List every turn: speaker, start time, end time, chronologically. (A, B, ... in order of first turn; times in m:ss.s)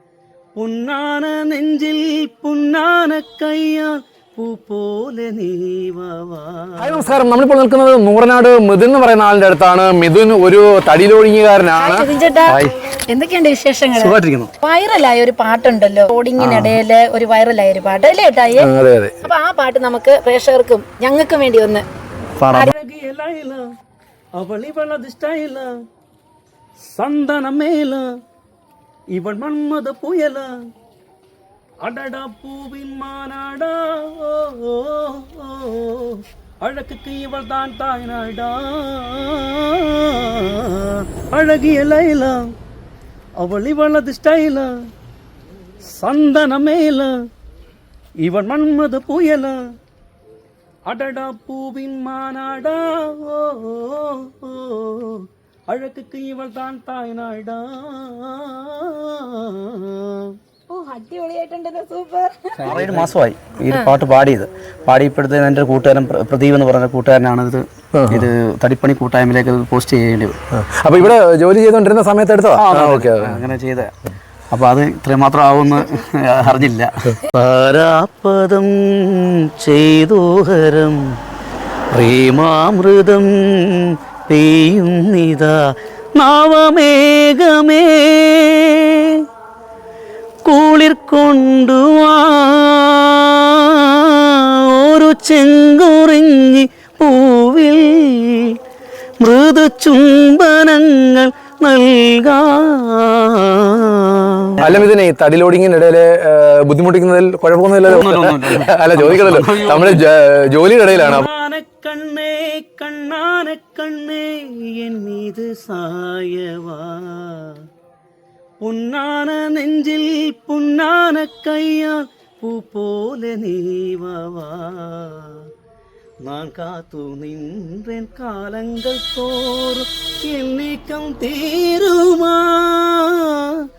0:00.6-0:07.2 A
0:06.8-0:12.7 B
0:11.7-0:18.7 C
0:13.9-0:14.5 D
0:16.4-0:16.8 D
0:18.6-0:19.2 B
0:19.2-0:21.8 C
0:22.4-0:22.7 D
0:22.6-0:23.7 A
0:24.4-0:25.8 A
0:26.8-0:28.1 A
0:29.1-0:30.5 A
0:31.8-0:42.5 A
0:43.4-0:44.7 A
0:45.9-0:47.1 A
0:48.2-0:49.6 A
0:50.9-1:00.3 A
1:00.7-1:02.7 C
1:02.6-1:03.0 B
1:02.6-1:10.4 D
1:08.0-1:08.3 B
1:10.6-1:13.4 B
1:12.5-1:13.9 D
1:14.5-1:17.1 D
1:17.3-1:21.1 A
1:21.9-1:29.2 A
1:30.4-1:38.6 A
1:39.2-1:44.6 A
1:44.6-1:51.3 B
1:47.8-1:50.0 D
1:50.9-1:57.6 A
1:58.6-2:05.4 A
2:06.2-2:13.6 A